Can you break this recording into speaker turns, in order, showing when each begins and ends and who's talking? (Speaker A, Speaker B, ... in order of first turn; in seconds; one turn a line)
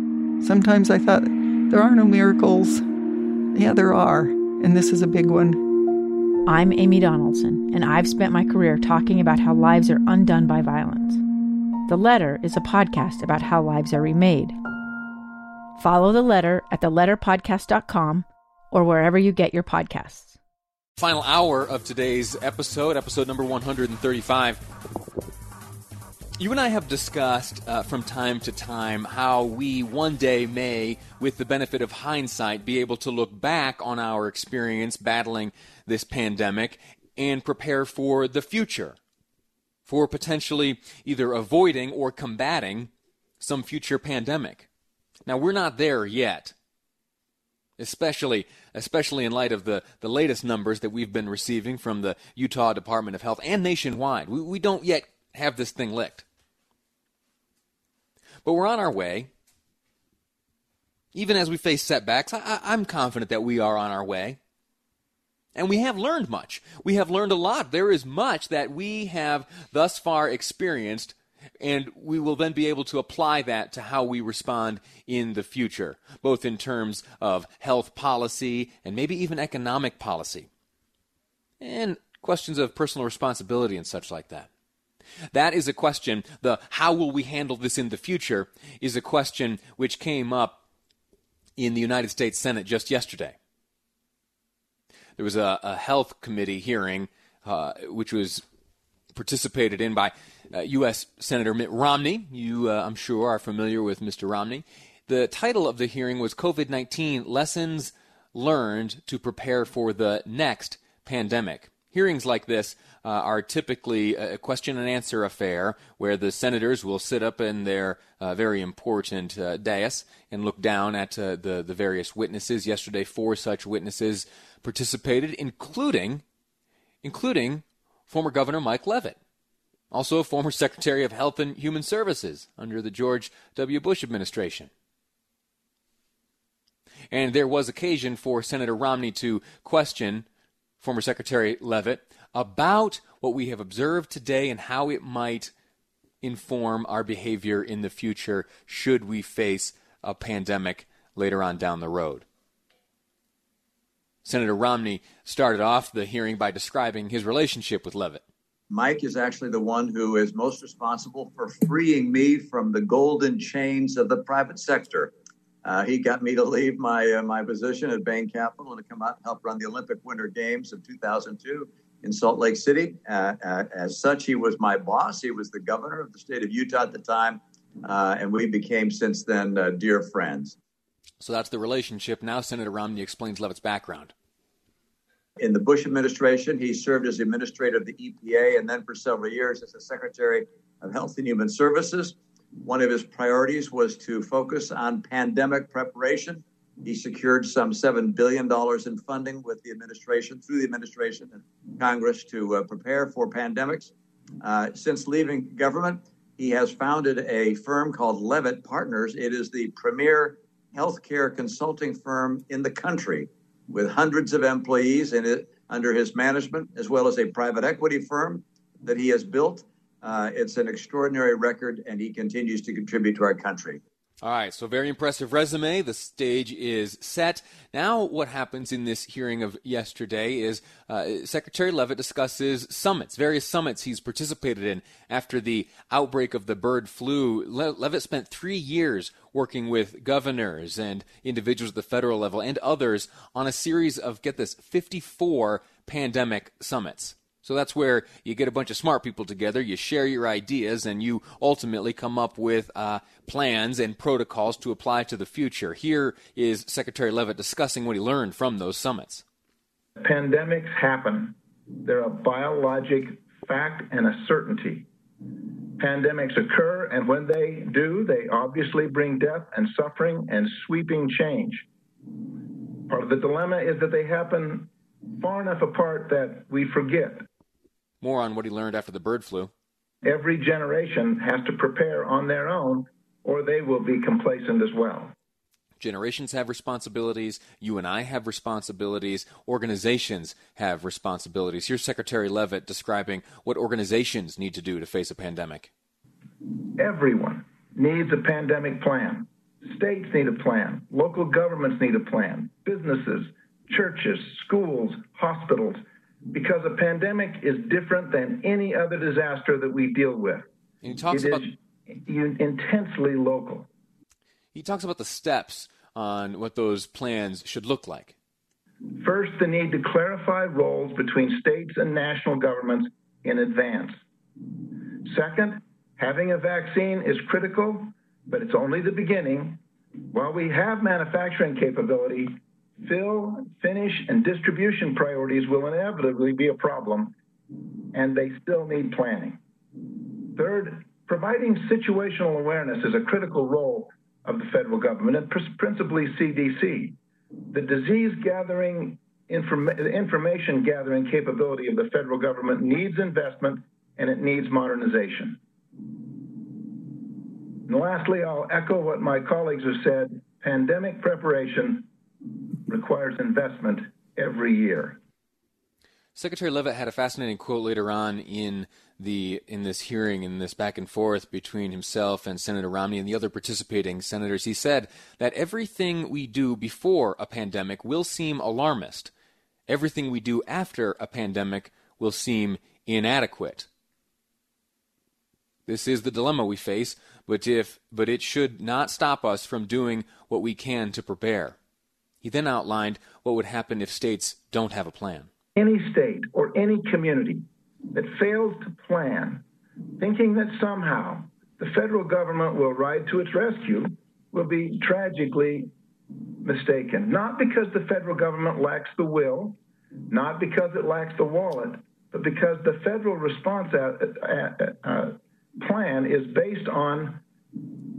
Speaker A: 0.4-2.8
Speaker A: 3.5-5.6
Speaker B: 6.5-11.2
Speaker B: 11.9-14.6
Speaker B: 15.8-20.4
Speaker C: 21.0-24.6
Speaker C: 26.4-39.0
Speaker C: 39.9-44.7
Speaker C: 45.2-46.5
Speaker C: 47.8-56.2
Speaker C: 58.4-59.3
Speaker C: 61.1-64.4
Speaker C: 65.5-80.5
Speaker C: 81.6-84.5
Speaker C: 85.3-90.6
Speaker C: 91.6-93.3
Speaker C: 95.2-98.4
Speaker C: 99.1-126.2
Speaker C: 127.0-129.2
Speaker C: 129.9-134.7
Speaker C: 137.1-140.3
Speaker C: 140.8-145.5
Speaker C: 146.2-152.2
Speaker C: 154.2-158.2
Speaker D: 158.7-165.1
Speaker D: 165.6-180.6
Speaker C: 181.2-184.1
Speaker D: 185.4-223.8
Speaker C: 224.2-259.2
Speaker E: 260.0-264.9
Speaker E: 265.8-271.7
Speaker E: 272.9-277.2
Speaker C: 278.0-279.5
Speaker E: 280.0-285.1
Speaker C: 285.8-295.7
Speaker E: 296.8-305.8
Speaker E: 306.3-310.5
Speaker C: 310.8-311.4
Speaker E: 311.1-313.7
Speaker C: 314.5-318.1
Speaker E: 319.0-324.0
Speaker E: 325.0-329.6
Speaker E: 330.1-337.1
Speaker E: 337.9-339.4
Speaker E: 340.3-347.0
Speaker E: 347.5-355.4
Speaker E: 357.7-361.9
Speaker E: 362.7-365.0
Speaker C: 366.1-379.1
Speaker C: 379.7-383.7
Speaker C: 385.7-391.6
Speaker C: 392.2-395.3
Speaker E: 395.6-399.4
Speaker E: 400.0-405.7
Speaker E: 406.4-409.6
Speaker E: 410.1-417.2